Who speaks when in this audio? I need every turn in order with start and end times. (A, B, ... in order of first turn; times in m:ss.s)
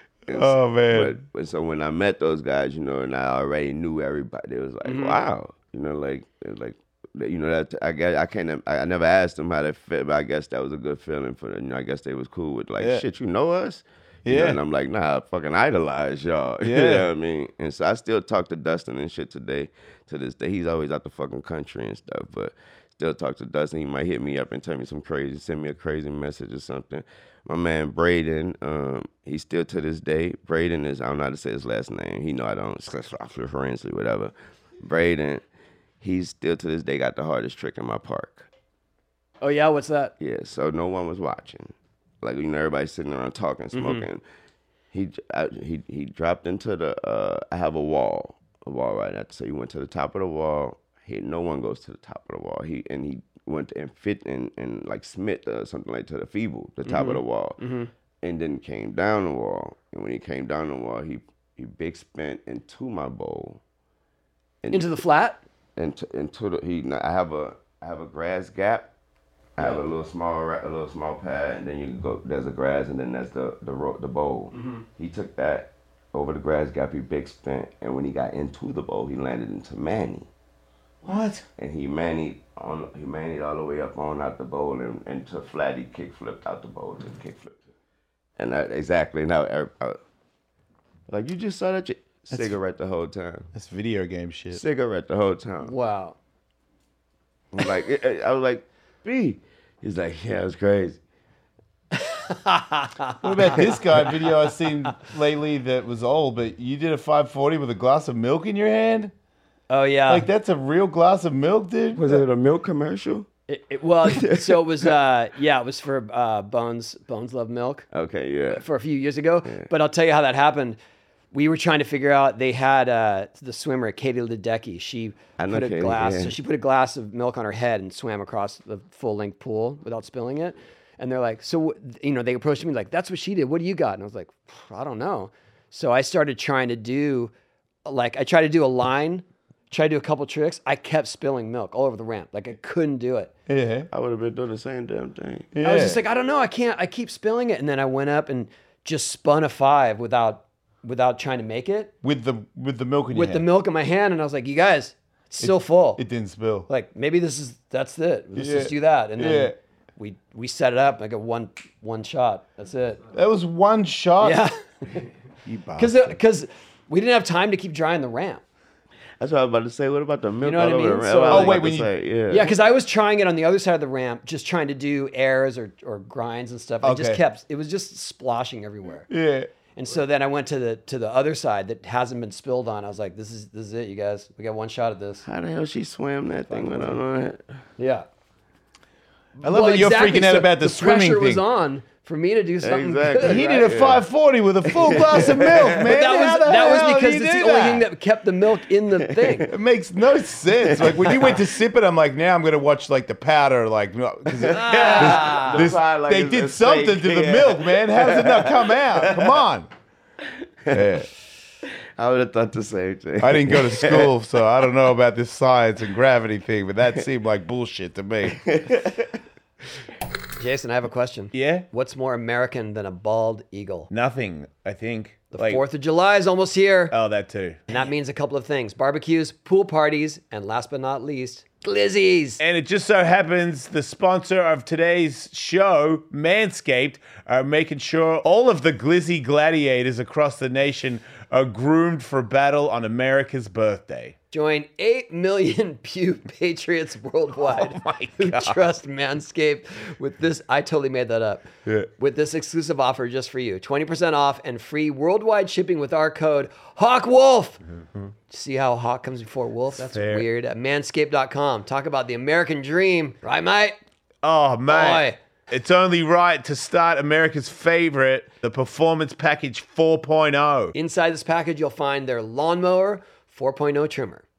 0:00.3-0:35.4 A
0:00.3-0:01.2 B
0:04.8-0:05.2 C
0:14.2-0:14.6 B
0:16.6-0:17.1 B
0:36.0-0:38.5 A
0:39.4-0:40.1 C
0:40.2-0:44.2 A
0:43.7-0:44.0 C
0:44.9-0:57.6 A
0:56.8-0:57.9 C
0:58.2-1:03.6 A
1:04.6-1:04.9 A
1:04.7-1:05.4 C
1:05.8-1:08.9 A
1:09.6-1:20.3 A
1:09.6-1:09.8 C
1:14.5-1:14.8 C
1:21.0-1:21.4 B
1:21.6-1:27.6 A
1:28.4-1:30.0 A
1:31.1-1:33.5 A
1:33.5-1:34.6 B
1:34.5-1:35.7 A
1:35.6-1:36.2 C
1:37.5-1:41.0 A
1:41.9-1:44.3 C
1:43.2-1:49.1 B
1:49.7-1:50.3 C
1:50.1-1:52.2 B
1:51.9-1:53.3 A
1:53.5-1:57.9 C
1:54.0-1:54.9 A
1:57.9-1:58.6 A
1:58.5-2:00.8 C
2:01.3-2:17.3 C
2:05.4-2:06.4 A
2:17.8-2:23.3 C
2:23.5-2:23.9 B
2:23.9-2:25.5 A
2:25.5-2:26.0 B
2:25.6-2:31.9 C
2:32.0-2:33.4 B
2:33.1-2:36.0 C
2:35.4-2:36.7 B
2:36.7-2:43.0 C
2:38.4-2:39.5 B
2:43.1-2:44.4 B
2:44.2-2:45.1 C
2:45.4-2:46.2 B
2:45.8-2:48.4 C
2:49.2-2:52.5 A
2:50.4-2:51.6 C
2:51.3-2:51.9 B
2:52.3-2:59.1 C
2:56.8-2:57.2 B
2:59.1-2:59.5 B
2:59.8-3:05.2 C
3:05.2-3:07.4 A
3:06.5-3:07.0 C
3:07.8-3:08.0 C
3:09.4-3:13.7 C
3:09.4-3:11.4 B
3:12.6-3:14.0 A
3:13.2-3:17.9 B
3:14.6-3:16.1 A
3:15.8-3:19.5 C
3:19.0-3:19.5 A
3:19.5-3:29.7 B
3:20.4-3:21.4 A
3:24.4-3:29.4 A
3:24.4-3:25.6 C
3:30.2-3:31.0 A
3:30.7-3:31.1 B
3:31.6-3:34.4 A
3:33.2-3:38.4 B
3:38.3-3:39.2 A
3:40.4-3:43.9 C
3:41.3-3:41.6 B
3:43.9-3:45.6 B
3:45.3-3:46.9 C
3:46.9-3:47.7 B
3:47.7-3:52.4 C
3:52.4-4:04.1 B
4:04.3-4:17.6 C
4:07.4-4:08.6 B
4:18.3-4:23.8 C
4:19.7-4:20.3 B
4:24.2-4:30.7 B
4:24.7-4:25.2 C
4:30.7-4:34.2 C